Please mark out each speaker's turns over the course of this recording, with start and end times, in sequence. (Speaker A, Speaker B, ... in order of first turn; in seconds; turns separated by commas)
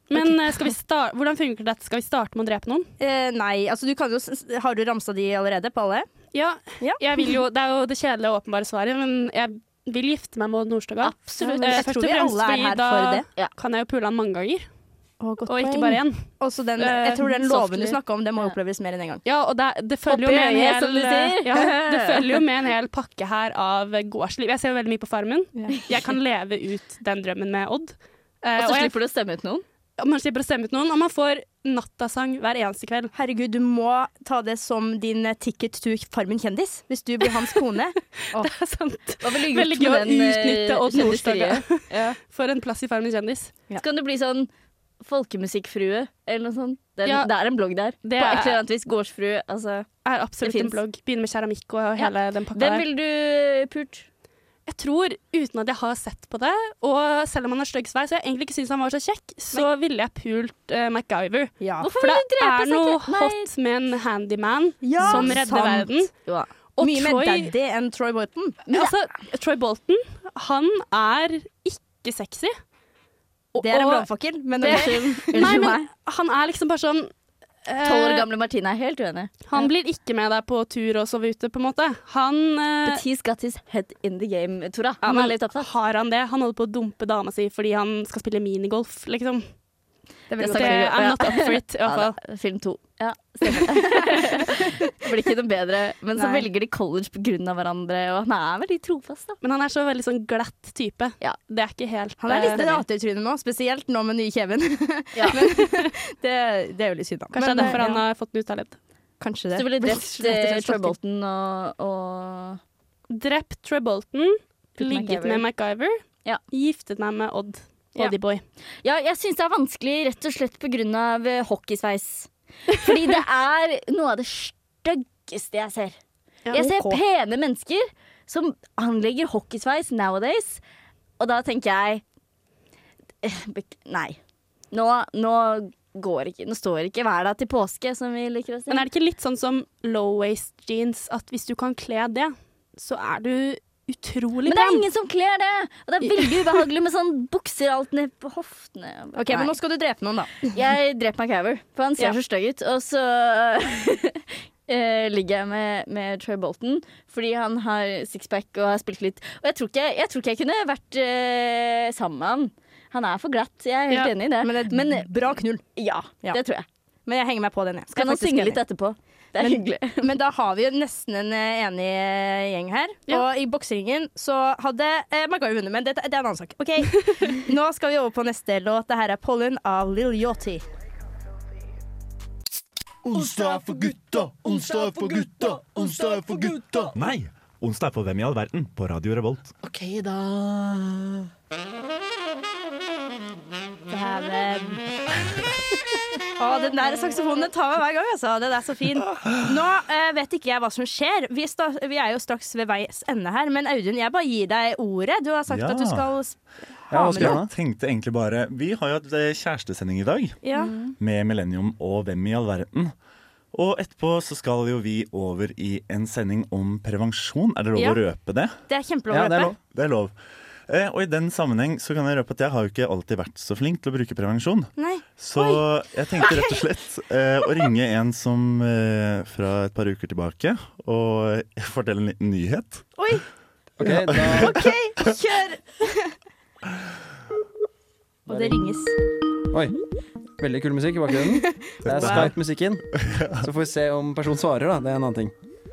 Speaker A: 0.1-2.9, Speaker B: 0.1-0.7, Speaker B: 3.0-6.1, Speaker A: 6.3-14.7, Speaker B: 11.0-13.3, Speaker C: 11.4-11.9, Speaker B: 15.2-19.2, Speaker A: 15.5-18.0, Speaker A: 19.2-28.9, Speaker C: 20.1-22.4, Speaker C: 28.6-29.6, Speaker A: 30.0-33.1, Speaker B: 33.1-38.5, Speaker A: 38.3-43.5, Speaker C: 39.2-42.1, Speaker C: 43.7-44.5, Speaker C: 45.0-49.9, Speaker A: 47.0-47.3, Speaker A: 48.0-48.6, Speaker A: 50.0-52.9, Speaker C: 50.4-50.8, Speaker C: 52.0-54.1, Speaker A: 54.7-66.1, Speaker B: 61.6-61.9, Speaker C: 61.8-63.5, Speaker B: 64.8-66.1, Speaker C: 65.0-65.4, Speaker A: 66.8-67.5, Speaker B: 66.8-68.7, Speaker A: 68.7-72.5, Speaker A: 73.5-74.1, Speaker B: 73.6-75.7, Speaker A: 74.6-77.1, Speaker C: 74.6-75.9, Speaker A: 77.7-78.3, Speaker C: 77.8-79.3, Speaker A: 79.5-83.0, Speaker C: 82.8-85.7, Speaker A: 85.0-89.5, Speaker B: 90.3-91.0, Speaker C: 90.4-99.4, Speaker A: 90.4-92.2, Speaker B: 96.2-96.5, Speaker A: 99.4-102.8, Speaker B: 102.2-108.0, Speaker C: 102.3-102.8, Speaker C: 105.1-105.4, Speaker A: 107.3-108.8, Speaker C: 107.4-107.9, Speaker B: 109.2-111.0, Speaker C: 109.5-112.6, Speaker A: 113.1-118.4, Speaker C: 114.8-115.5, Speaker C: 118.8-126.0, Speaker B: 126.5-127.0, Speaker C: 126.5-130.6, Speaker C: 131.2-132.0, Speaker C: 133.2-134.2, Speaker C: 134.7-138.9, Speaker A: 138.7-144.8, Speaker C: 144.4-149.5, Speaker B: 149.2-150.5, Speaker C: 150.5-165.0, Speaker B: 164.3-165.6, Speaker C: 165.8-166.7, Speaker B: 167.1-168.6, Speaker C: 167.9-170.1, Speaker B: 169.4-180.6, Speaker D: 183.1-187.0, Speaker E: 186.9-189.5, Speaker D: 189.6-191.0, Speaker B: 193.9-194.8, Speaker B: 196.4-206.4, Speaker E: 205.5-206.1, Speaker B: 206.9-207.4, Speaker F: 206.9-207.5, Speaker E: 206.9-210.4, Speaker B: 210.4-210.8, Speaker C: 210.6-210.9, Speaker E: 211.0-212.9, Speaker E: 213.5-218.6, Speaker B: 218.7-219.6, Speaker F: 219.1-219.6, Speaker E: 219.6-220.1, Speaker E: 220.7-232.8, Speaker B: 224.8-225.6, Speaker B: 226.2-226.6, Speaker B: 233.0-233.2, Speaker F: 233.8-234.6, Speaker E: 233.8-234.7, Speaker B: 234.3-236.1, Speaker B: 238.3-238.9, Speaker F: 238.3-238.6, Speaker F: 239.5-239.8, Speaker F: 240.4-245.3, Speaker B: 241.2-242.3, Speaker E: 241.8-242.3, Speaker E: 243.0-243.4